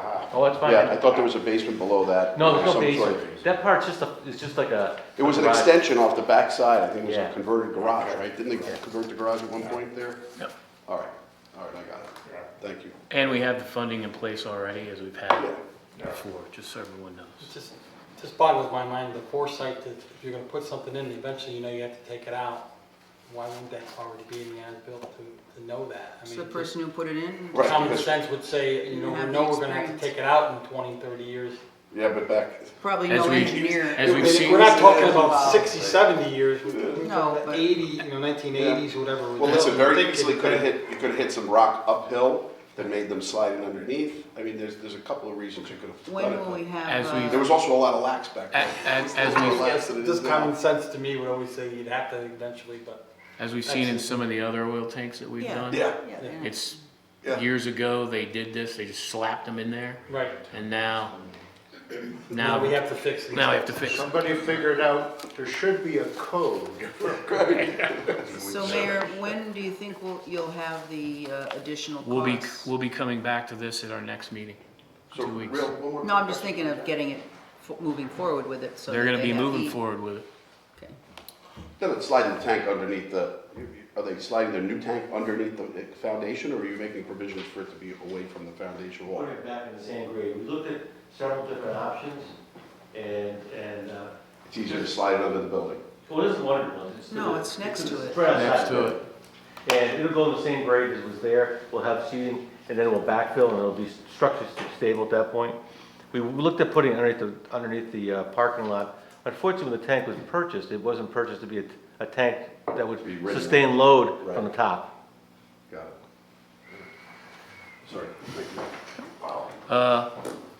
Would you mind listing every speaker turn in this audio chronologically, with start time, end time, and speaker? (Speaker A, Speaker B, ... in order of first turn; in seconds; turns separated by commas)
Speaker A: 0.3-1.1, Speaker B: 0.6-3.4, Speaker A: 2.4-5.8, Speaker B: 5.2-10.2, Speaker A: 7.0-7.4, Speaker B: 10.9-13.0, Speaker C: 13.1-17.5, Speaker D: 17.4-22.7, Speaker D: 23.3-26.7, Speaker E: 26.2-28.1, Speaker B: 27.5-28.1, Speaker D: 27.6-31.6, Speaker E: 28.8-30.1, Speaker B: 31.9-32.8, Speaker E: 32.8-35.7, Speaker C: 33.1-34.8, Speaker D: 34.0-40.7, Speaker B: 36.7-37.1, Speaker E: 37.0-37.9, Speaker B: 38.5-38.8, Speaker B: 39.4-50.5, Speaker E: 46.0-47.5, Speaker C: 46.9-47.4, Speaker C: 48.5-49.7, Speaker D: 49.2-53.0, Speaker C: 53.4-61.1, Speaker D: 53.6-54.2, Speaker E: 55.4-56.8, Speaker B: 55.7-56.0, Speaker D: 56.1-56.4, Speaker D: 60.1-60.4, Speaker C: 62.3-64.1, Speaker D: 62.3-64.0, Speaker F: 63.9-67.2, Speaker B: 67.2-68.9, Speaker F: 68.3-69.2, Speaker E: 68.4-72.7, Speaker C: 72.0-74.6, Speaker B: 75.1-76.9, Speaker C: 75.1-75.7, Speaker E: 76.0-79.8, Speaker C: 78.9-80.3, Speaker B: 81.8-89.3, Speaker A: 89.1-92.3, Speaker A: 92.9-94.1, Speaker B: 94.5-95.8, Speaker A: 96.1-99.0, Speaker E: 97.1-98.6, Speaker C: 98.3-99.0, Speaker A: 99.7-105.6, Speaker A: 106.1-114.9, Speaker B: 113.0-114.5, Speaker B: 115.7-116.0, Speaker B: 117.8-118.7, Speaker C: 119.7-120.1